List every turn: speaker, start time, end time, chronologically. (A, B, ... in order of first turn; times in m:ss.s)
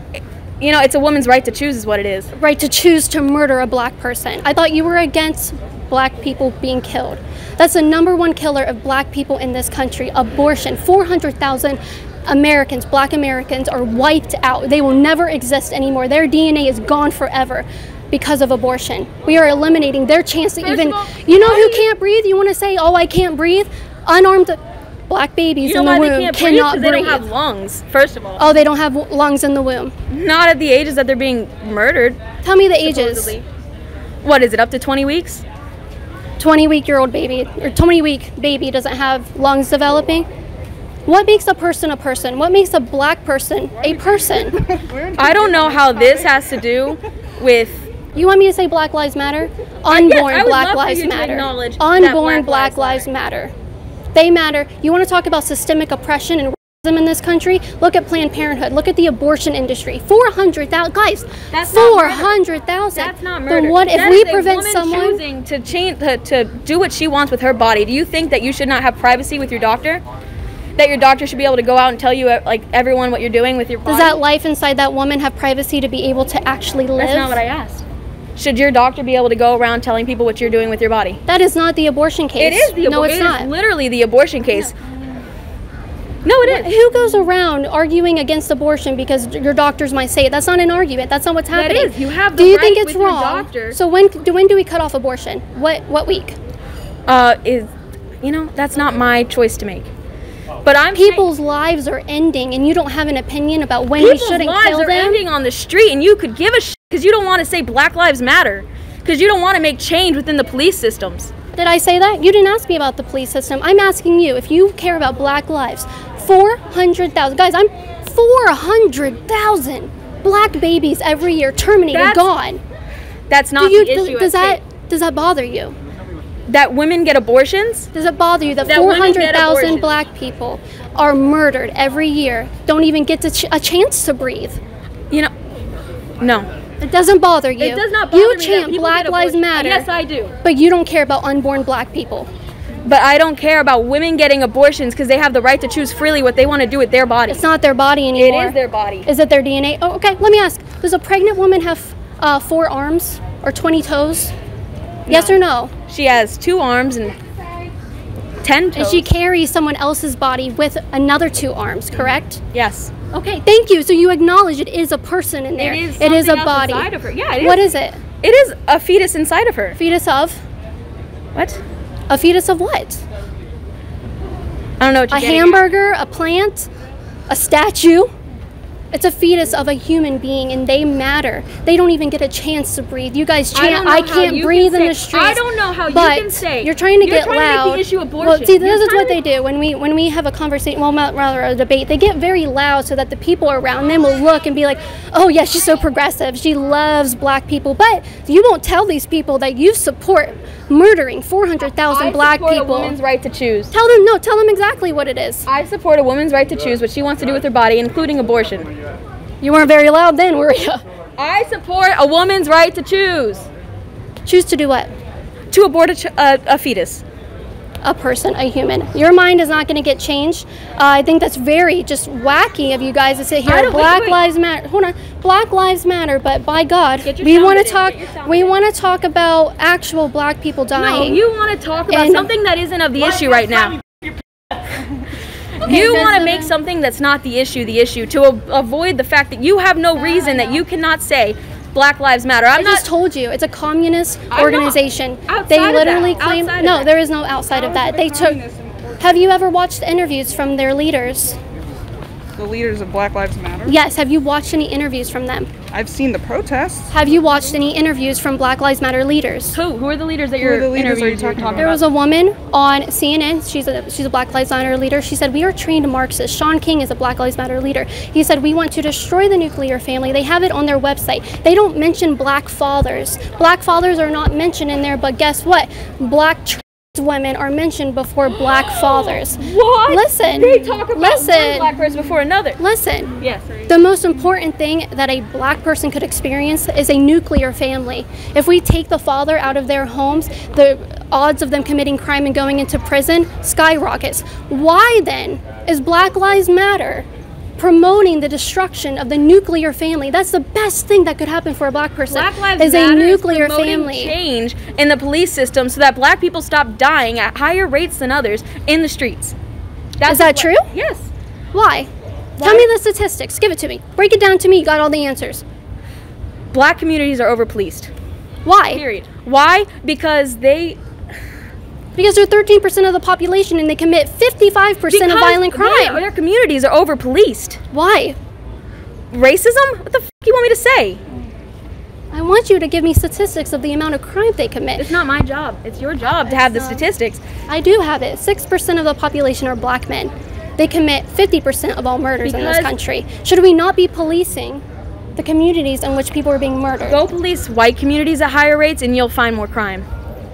0:00.2-0:02.3 A
0:02.4-0:27.3 B
0:20.6-0:21.9 A
0:25.6-0:28.4 A
0:28.4-0:29.9 B
0:30.1-0:32.2 A
0:32.4-0:33.4 B
0:32.8-0:33.4 A
0:34.2-0:35.4 A
0:36.4-0:40.3 B
0:41.1-0:44.6 B
0:44.7-0:46.3 C
0:45.2-0:47.9 A
0:48.2-0:53.5 B
0:49.9-0:53.1 A
0:54.1-1:05.2 B
1:01.5-1:02.3 A
1:03.0-1:10.0 A
1:10.8-1:14.2 A
1:13.8-1:17.4 B
1:17.0-1:17.8 A
1:18.4-1:21.2 A
1:21.3-1:23.5 B
1:22.4-1:24.7 A
1:26.2-1:26.7 A
1:26.4-1:36.4 B
1:31.5-1:33.8 A
1:37.1-1:37.7 A
1:38.2-1:39.9 A
1:40.6-1:41.2 A
1:41.0-1:45.2 B
1:44.0-1:51.3 A
1:51.6-2:02.6 B
2:01.9-2:02.3 A
2:03.3-2:04.6 A
2:03.6-2:05.8 B
2:06.5-2:07.9 A
2:07.9-2:14.6 B
2:08.7-2:09.9 A
2:16.2-2:16.5 A
2:16.8-2:19.9 B
2:17.6-2:20.3 A
2:20.4-2:22.3 B
2:22.8-2:27.4 A
2:27.3-2:34.3 B
2:28.2-2:29.1 A
2:35.1-2:37.2 A
2:35.1-2:35.7 B
2:38.4-2:39.1 A
2:38.8-2:42.4 B
2:42.5-2:42.9 A
2:43.1-2:48.0 B
2:45.6-2:47.7 A
2:48.2-2:49.8 A
2:49.8-2:50.4 B
2:51.4-2:51.6 A
2:52.1-2:53.0 B
2:54.8-2:55.6 A
2:55.1-2:56.7 B
2:57.3-2:58.1 B
2:58.9-3:23.0 B
3:03.5-3:09.2 A
3:21.9-3:23.7 A
3:23.7-3:25.5 B
3:25.5-3:28.7 A
3:29.4-3:30.8 B
3:31.2-3:33.5 A
3:34.2-3:34.9 B
3:35.5-3:37.0 A
3:37.8-3:51.2 B
3:43.5-3:44.2 A
3:47.0-3:48.6 A
3:50.8-3:53.8 A
3:51.9-3:52.3 B
3:55.6-4:02.8 A
3:55.6-3:56.5 B
4:02.5-4:08.4 B
4:04.3-4:06.9 A
4:07.5-4:08.9 C
4:09.0-4:11.4 B
4:12.4-4:13.8 C
4:13.7-4:15.5 B
4:15.7-4:16.9 C
4:16.9-4:19.6 B
4:19.5-4:21.8 A
4:20.4-4:21.7 C
4:21.6-4:41.7 B
4:38.6-4:42.6 A
4:42.6-4:43.2 B
4:43.2-4:43.7 A
4:43.7-4:57.1 B
4:57.6-5:04.2 B
5:02.1-5:09.4 A
5:10.0-5:11.1 A
5:10.0-5:10.7 B
5:11.5-5:15.4 B
5:12.4-5:12.7 A
5:16.5-5:17.9 A
5:18.4-5:18.8 B
5:18.7-5:20.8 A
5:22.0-5:26.0 B
5:24.9-5:27.6 A
5:27.7-5:28.2 B
5:29.1-5:31.0 A
5:32.1-5:34.9 B
5:34.8-5:37.2 A
5:36.2-5:36.8 B
5:37.5-5:44.6 B
5:42.2-5:42.7 A
5:45.2-5:47.0 B
5:46.9-5:49.9 A